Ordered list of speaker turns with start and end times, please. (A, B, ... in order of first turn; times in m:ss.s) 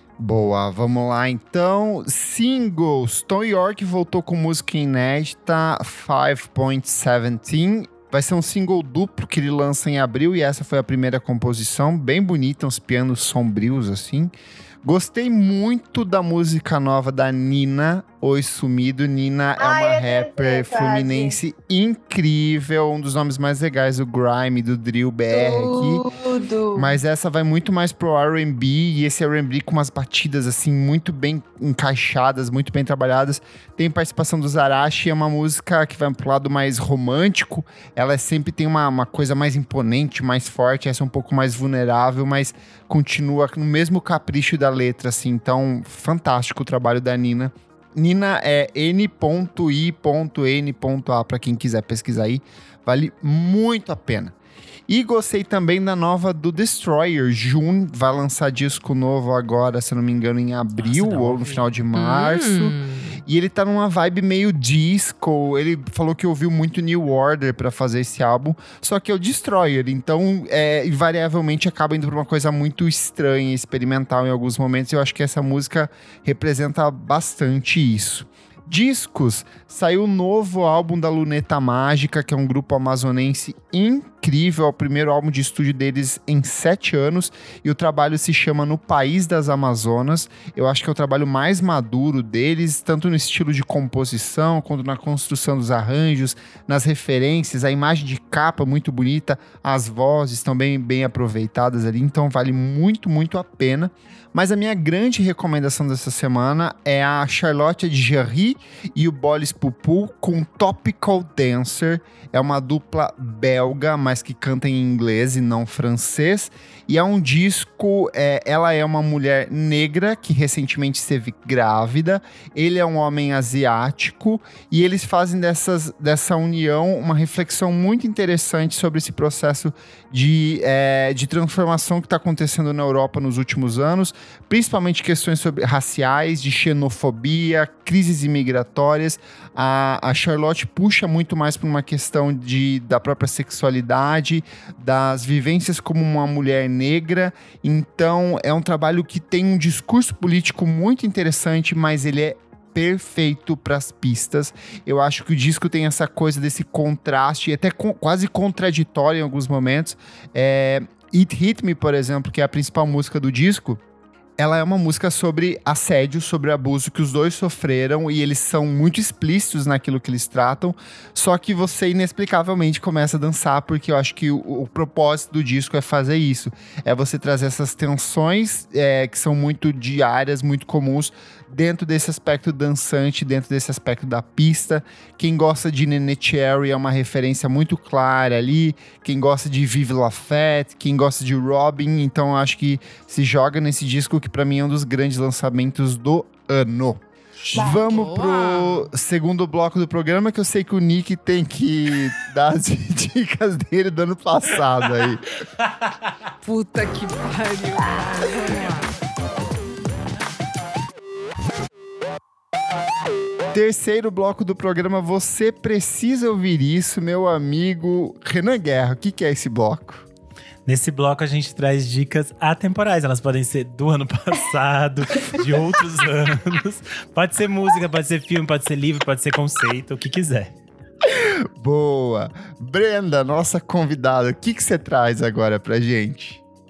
0:00.2-0:26.0 A
0:19.6-0:21.4 B
0:25.3-0:27.0 B
0:26.7-0:54.3 A
0:54.9-2:43.8 A
1:00.8-1:01.7 C
1:01.9-1:03.2 D
2:44.4-3:17.0 A
3:17.4-3:18.9 D
3:17.5-3:25.3 A
3:17.5-3:17.8 B
3:26.4-3:28.9 D
3:33.5-3:40.0 A
3:40.6-3:50.5 C
3:51.0-3:56.4 A